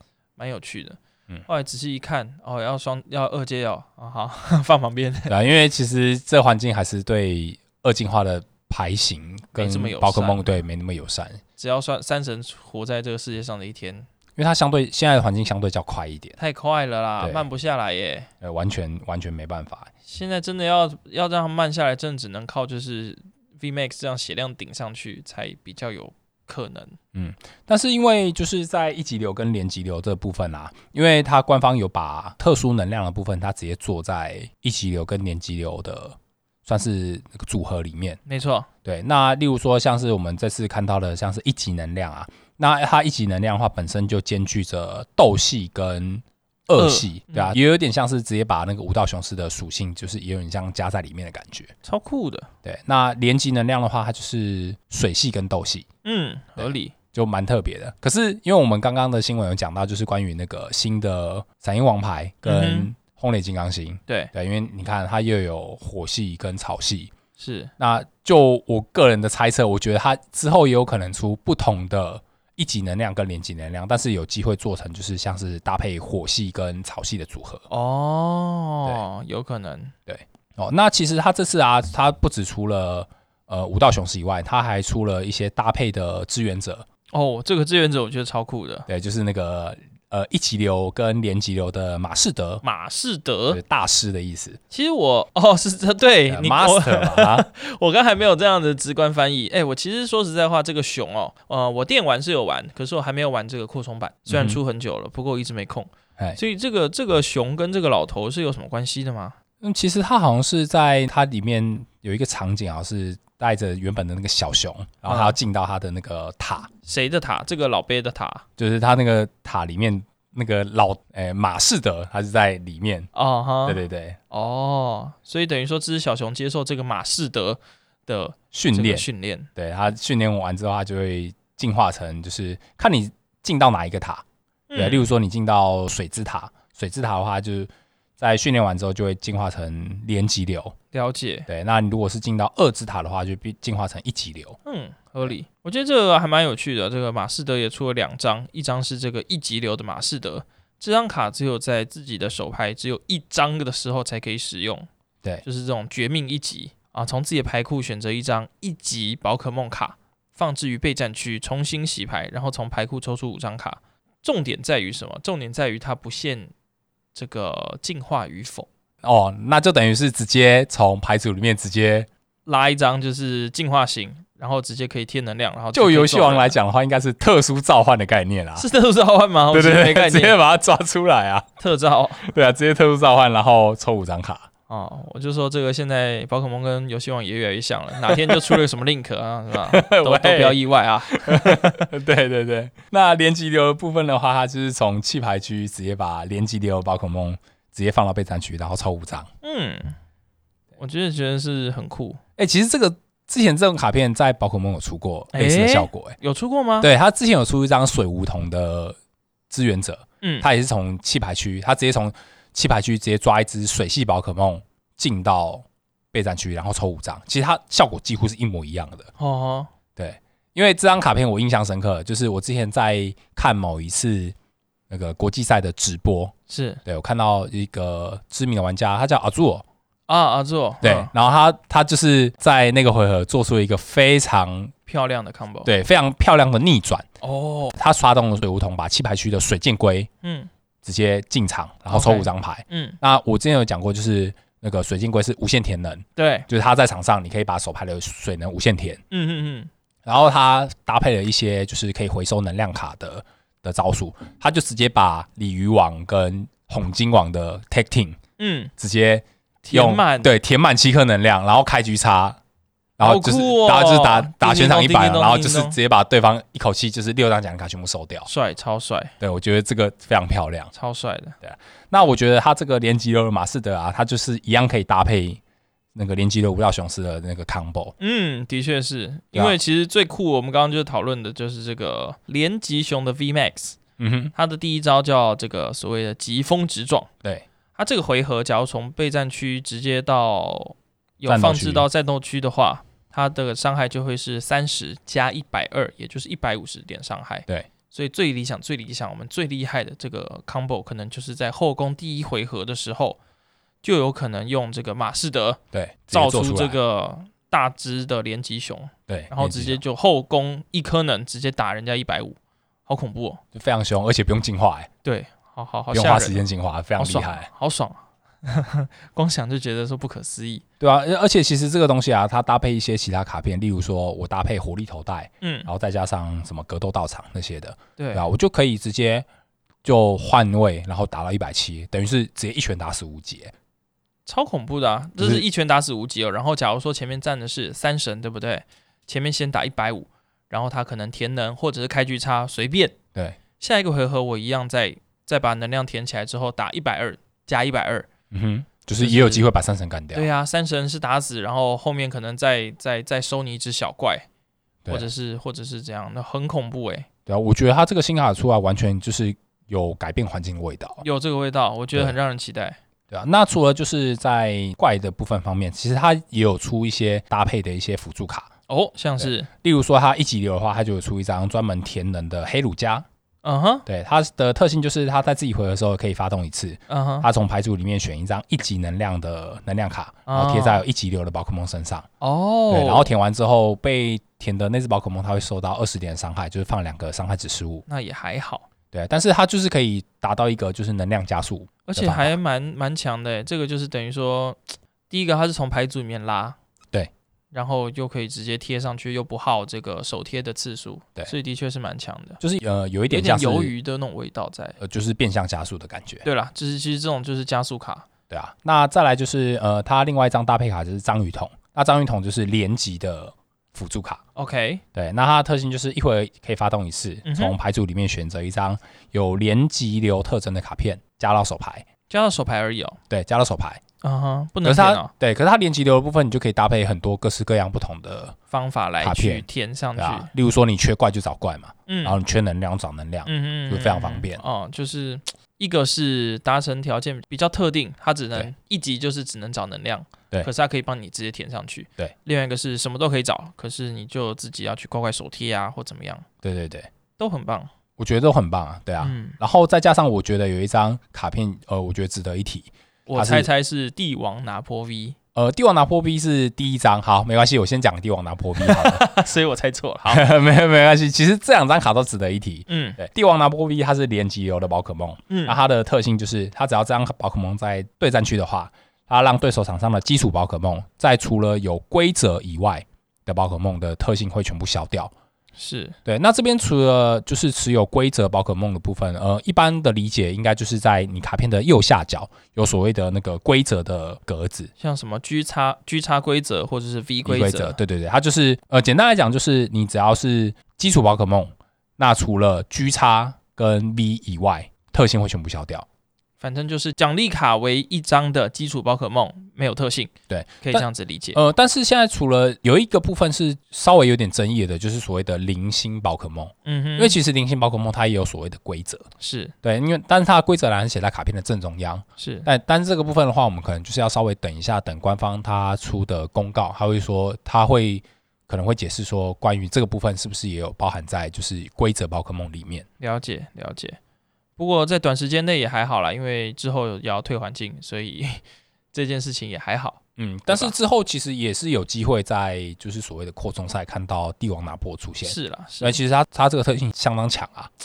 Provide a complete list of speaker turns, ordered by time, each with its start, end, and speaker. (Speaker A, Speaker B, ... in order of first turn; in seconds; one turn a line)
Speaker A: 0.4-5.3
Speaker B: 5.3-11.4
Speaker A: 9.6-10.5
Speaker A: 11.6-14.1
Speaker B: 14.3-16.4
Speaker A: 16.4-18.3
Speaker B: 17.2-17.4
Speaker B: 18.4-19.9
Speaker A: 20.1-27.0
Speaker B: 27.1-38.2
Speaker A: 38.2-38.7
Speaker B: 38.8-51.7
Speaker A: 46.7-47.6
Speaker A: 51.8-52.5
Speaker B: 52.6-55.9
Speaker A: 56.0-56.9
Speaker B: 56.6-67.1
Speaker A: 62.4-62.9
Speaker A: 67.4-67.7
Speaker B: 67.8-77.6
Speaker A: 77.7-79.9
Speaker B: 80.1-86.8
Speaker A: 87.1-88.9
Speaker B: 88.9-92.6
Speaker A: 92.6-93.6
Speaker B: 93.5-94.6
Speaker A: 94.7-109.3
Speaker B: 96.3-97.5
Speaker B: 104.3-104.6
Speaker B: 109.6-116.7
Speaker A: 115.0-115.3
Speaker A: 116.8-118.4
Speaker B: 118.6-123.1
Speaker A: 123.1-129.5
Speaker B: 123.6-124.2
Speaker B: 128.5-134.2
Speaker A: 134.7-135.1
Speaker B: 134.7-140.7
Speaker A: 140.9-141.5
Speaker B: 141.5-144.6
Speaker A: 144.7-154.9
Speaker A: 155.4-166.5
Speaker A: 167.1-168.7
Speaker B: 169.0-172.1
Speaker A: 172.4-176.6
Speaker B: 175.7-178.7
Speaker A: 178.6-180.4
Speaker B: 179.5-181.5
Speaker A: 181.6-182.2
Speaker B: 182.2-184.5
Speaker A: 184.7-191.9
Speaker B: 188.0-188.6
Speaker B: 189.7-190.6
Speaker B: 191.1-199.3
Speaker A: 199.4-199.9
Speaker A: 200.8-202.2
Speaker B: 202.4-206.2
Speaker A: 205.3-206.9
Speaker B: 206.8-209.0
Speaker B: 209.5-219.1
Speaker A: 210.2-210.5
Speaker A: 219.2-219.7
Speaker B: 219.9-224.3
Speaker B: 224.9-226.3
Speaker A: 226.5-226.8
Speaker B: 226.8-229.6
Speaker A: 230.1-231.1
Speaker B: 230.8-234.7
Speaker A: 234.8-235.7
Speaker B: 235.6-237.0
Speaker A: 237.2-237.7
Speaker B: 237.7-240.1
Speaker A: 240.2-240.5
Speaker B: 240.8-249.0
Speaker A: 241.9-243.0
Speaker A: 246.2-246.5
Speaker A: 249.1-249.7
Speaker B: 250.1-258.2
Speaker A: 258.4-258.7
Speaker B: 258.8-262.4
Speaker A: 259.6-260.3
Speaker B: 263.0-268.3
Speaker A: 263.0-265.8
Speaker A: 268.3-269.1
Speaker B: 269.2-270.7
Speaker A: 270.7-271.4
Speaker B: 271.4-275.4
Speaker B: 275.9-277.9
Speaker A: 278.0-283.8
Speaker B: 284.0-284.3
Speaker A: 284.3-287.1
Speaker A: 287.8-303.2
Speaker B: 291.3-291.9
Speaker A: 303.8-305.6
Speaker B: 305.7-306.8
Speaker A: 306.1-313.4
Speaker B: 309.1-309.8
Speaker B: 313.5-314.9
Speaker A: 315.0-316.4
Speaker B: 315.9-317.5
Speaker A: 317.0-320.6
Speaker B: 320.8-329.2
Speaker A: 325.4-325.7
Speaker A: 328.0-328.2
Speaker B: 329.8-333.5
Speaker A: 334.2-342.9
Speaker B: 335.2-335.4
Speaker A: 343.6-348.1
Speaker B: 348.3-350.3
Speaker A: 349.0-349.5
Speaker A: 350.1-354.2
Speaker A: 354.9-357.1
Speaker B: 357.3-361.0
Speaker A: 361.0-362.8
Speaker B: 363.1-368.5
Speaker A: 368.7-369.5
Speaker B: 369.2-373.1
Speaker A: 373.4-373.9
Speaker B: 373.9-382.1
Speaker A: 376.9-377.3
Speaker A: 380.3-380.8
Speaker A: 382.2-383.1
Speaker B: 382.7-387.8
Speaker A: 387.9-388.7
Speaker B: 388.9-392.4
Speaker A: 391.8-396.6
Speaker A: 397.5-402.4
Speaker B: 402.4-403.7
Speaker A: 403.1-404.8
Speaker B: 404.8-406.2
Speaker A: 406.2-408.1
Speaker B: 408.3-414.2
Speaker A: 414.4-414.8
Speaker B: 414.9-421.9
Speaker A: 417.2-417.6
Speaker A: 422.1-423.0
Speaker B: 423.1-423.8
Speaker A: 424.0-425.1
Speaker B: 424.6-428.4
Speaker A: 428.5-430.3
Speaker B: 429.0-429.4
Speaker B: 430.0-434.4
Speaker A: 431.9-432.2
Speaker A: 433.2-446.2
Speaker B: 446.4-446.9
Speaker A: 447.2-447.7
Speaker B: 448.0-453.5
Speaker A: 449.0-449.4
Speaker A: 453.1-455.2
Speaker B: 455.3-459.1
Speaker A: 458.6-460.3
Speaker B: 460.1-475.1
Speaker A: 462.7-463.0
Speaker A: 465.3-465.6
Speaker A: 475.6-475.9
Speaker B: 476.0-484.7
Speaker A: 484.8-487.8
Speaker B: 487.2-495.9
Speaker A: 496.4-501.4
Speaker B: 500.3-509.1
Speaker A: 506.6-507.2
Speaker A: 509.2-509.5
Speaker B: 509.6-522.9
Speaker A: 512.2-512.5
Speaker A: 523.0-524.0
Speaker A: 524.6-530.7
Speaker B: 530.2-537.7
Speaker A: 535.2-536.0